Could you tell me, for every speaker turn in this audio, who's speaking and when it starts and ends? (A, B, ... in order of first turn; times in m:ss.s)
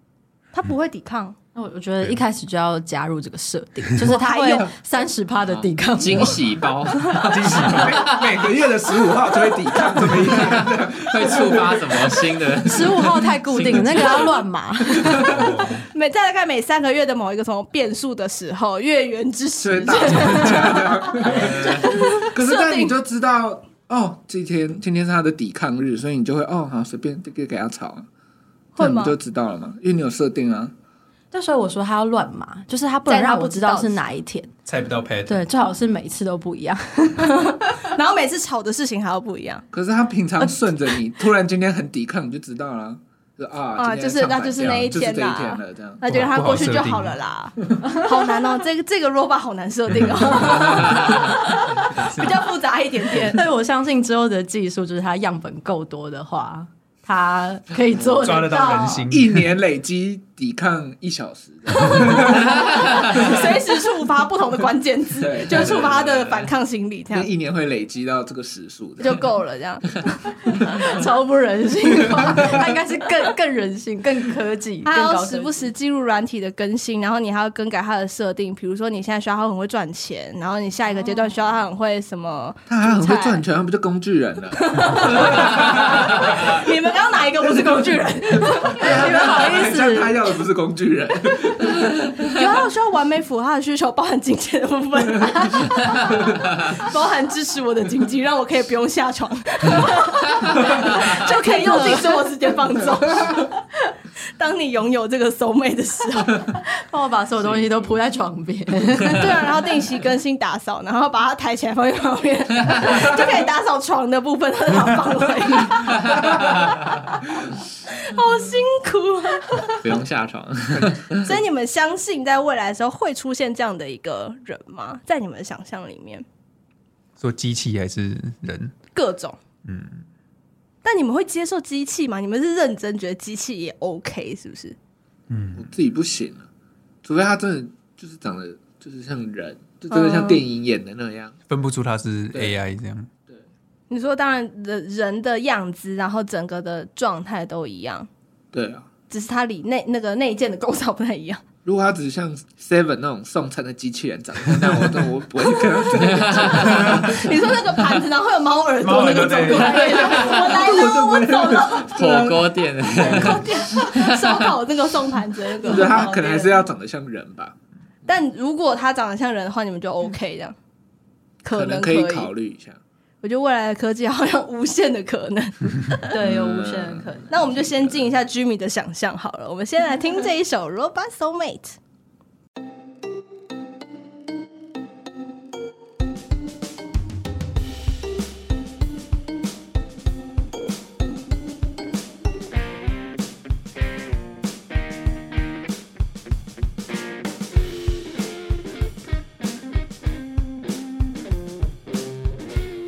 0:00.5-0:01.4 A
0:01.5-0:06.4 B
0:04.0-0:04.7 A
0:05.4-0:08.2 C
0:07.3-0:08.2 D
0:07.7-0:12.2 E
0:10.1-0:14.4 C
0:12.6-0:15.7 B
0:15.3-0:15.8 D
0:15.9-0:22.9 A
0:19.6-0:28.1 E
0:21.2-0:21.9 C
0:28.8-0:29.2 A
0:28.8-0:30.7 E
0:31.3-0:34.5 B
0:33.0-0:34.0 A
0:34.6-0:35.4 D
0:35.3-0:37.8 B
0:37.2-0:39.6 A
0:39.7-0:46.2 E
0:43.8-0:53.4 A
0:46.0-0:47.2 D
0:49.9-0:50.2 D
0:50.6-0:51.1 C
0:53.2-0:59.1 B
0:58.2-0:59.5 D
0:59.1-1:03.3 E
1:01.7-1:07.3 A
1:02.6-1:03.0 C
1:05.2-1:06.4 E
1:07.1-1:09.2 E
1:09.0-1:10.6 A
1:10.5-1:15.7 B
1:12.2-1:12.6 E
1:14.8-1:23.4 A
1:22.7-1:26.6 E
1:24.6-1:29.7 A
1:27.4-1:31.9 E
1:28.6-1:30.2 B
1:32.2-1:43.5 A
1:41.4-1:42.2 B
1:44.4-1:46.4 A
1:46.8-1:49.5 B
1:49.1-1:57.2 A
1:57.8-1:59.8 A
1:59.8-2:01.3 C
2:01.2-2:06.2 A
2:07.2-2:08.7 D
2:08.9-2:09.4 A
2:09.6-2:10.0 D
2:10.8-2:14.8 A
2:15.3-2:15.7 D
2:15.5-2:16.4 E
2:17.0-2:21.3 E
2:19.9-2:20.4 A
2:21.5-2:23.1 D
2:22.3-2:22.6 E
2:23.9-2:28.1 A
2:28.5-2:28.9 E
2:29.1-2:31.4 A
2:31.6-2:37.2 E
2:36.1-2:36.8 C
2:36.2-2:42.2 A
2:36.8-2:37.2 D
2:38.8-2:40.0 D
2:39.6-2:40.5 C
2:39.7-2:43.4 E
2:41.9-2:44.4 C
2:42.9-2:46.6 A
2:45.6-2:47.6 E
2:48.1-2:50.6 A
2:51.4-2:52.3 A
2:51.5-2:52.8 E
2:53.2-2:56.2 A
2:56.1-2:57.4 B
2:56.2-2:57.2 C
2:57.3-3:01.8 A